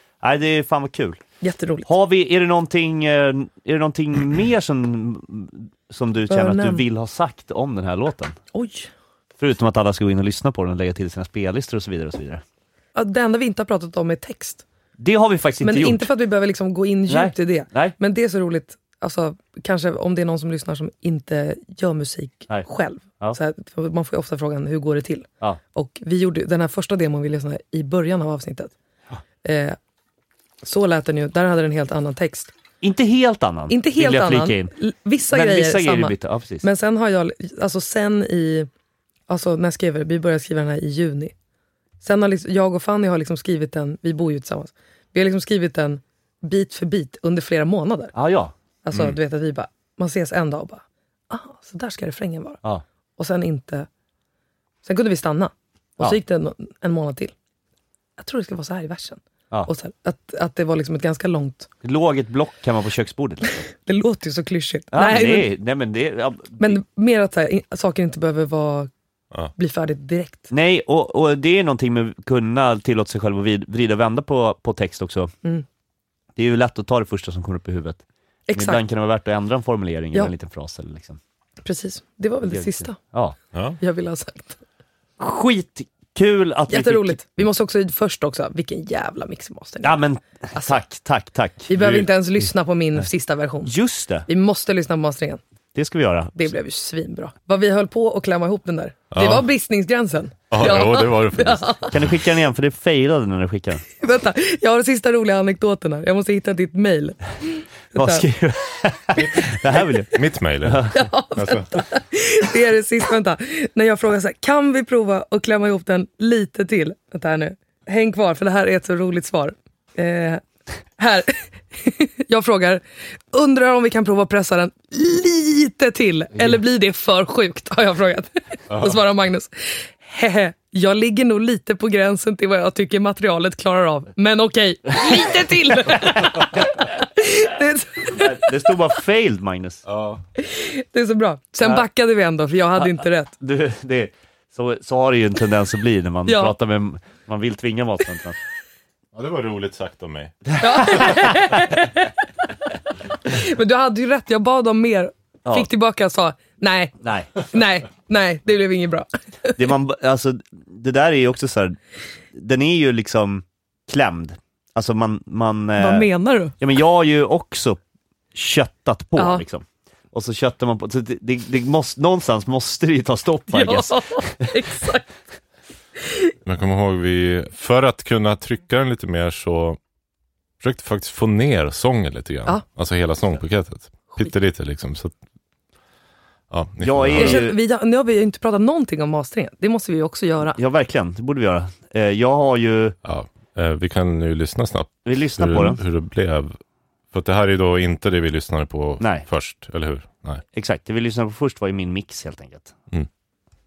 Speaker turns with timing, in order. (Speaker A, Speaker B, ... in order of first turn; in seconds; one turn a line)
Speaker A: 0.2-1.2
Speaker B: 1.4-1.9
Speaker A: 1.9-8.4
Speaker B: 6.3-6.8
Speaker B: 8.5-8.9
Speaker A: 9.4-12.4
Speaker B: 12.9-14.6
Speaker A: 15.0-16.1
Speaker B: 15.6-28.7
Speaker A: 17.1-17.9
Speaker B: 29.4-29.8
Speaker B: 30.6-32.5
Speaker A: 32.8-34.7
Speaker B: 33.7-38.7
Speaker A: 35.3-36.6
Speaker B: 39.3-41.3
Speaker B: 42.0-48.1
Speaker A: 48.1-49.1
Speaker B: 48.8-52.6
Speaker B: 53.2-53.9
Speaker B: 54.8-57.3
Speaker B: 58.2-61.7
Speaker A: 61.8-63.6
Speaker B: 63.6-65.5
Speaker A: 64.9-66.8
Speaker B: 66.6-68.9
Speaker B: 69.5-70.5
Speaker A: 70.5-75.3
Speaker A: 76.3-78.0
Speaker B: 78.5-78.8
Speaker A: 78.5-81.2
Speaker B: 81.6-83.0
Speaker A: 82.5-83.4
Speaker C: 83.5-83.8
Speaker B: 83.8-84.6
Speaker A: 85.2-87.2
Speaker B: 86.7-90.0
Speaker A: 89.8-91.7
Speaker B: 90.5-90.8
Speaker B: 91.7-93.7
Speaker C: 91.8-92.0
Speaker A: 93.7-94.3
Speaker B: 94.3-95.4
Speaker A: 95.7-96.5
Speaker B: 96.3-101.9
Speaker C: 99.1-99.4
Speaker C: 100.5-102.0
Speaker A: 101.9-103.8
Speaker B: 104.0-108.2
Speaker A: 107.9-110.9
Speaker C: 110.1-111.8
Speaker B: 110.9-120.4
Speaker B: 121.0-138.7
Speaker C: 128.7-129.0
Speaker A: 138.0-139.8
Speaker C: 139.9-140.2
Speaker B: 140.4-143.3
Speaker A: 142.8-148.4
Speaker B: 146.2-146.5
Speaker C: 149.1-151.0
Speaker B: 150.6-152.5
Speaker A: 150.6-151.3
Speaker B: 153.1-159.6
Speaker A: 157.0-157.3
Speaker A: 159.5-161.8
Speaker A: 162.3-167.8
Speaker B: 165.8-166.6
Speaker A: 168.3-174.5
Speaker B: 169.2-169.4
Speaker B: 173.5-175.0
Speaker B: 176.1-176.3
Speaker C: 176.4-179.8
Speaker C: 180.6-185.1
Speaker C: 186.5-187.4
Speaker A: 186.8-187.6
Speaker B: 187.2-190.6
Speaker A: 190.5-193.0
Speaker C: 193.0-196.6
Speaker A: 195.1-195.8
Speaker C: 197.1-200.4
Speaker A: 199.0-199.2
Speaker A: 200.5-202.8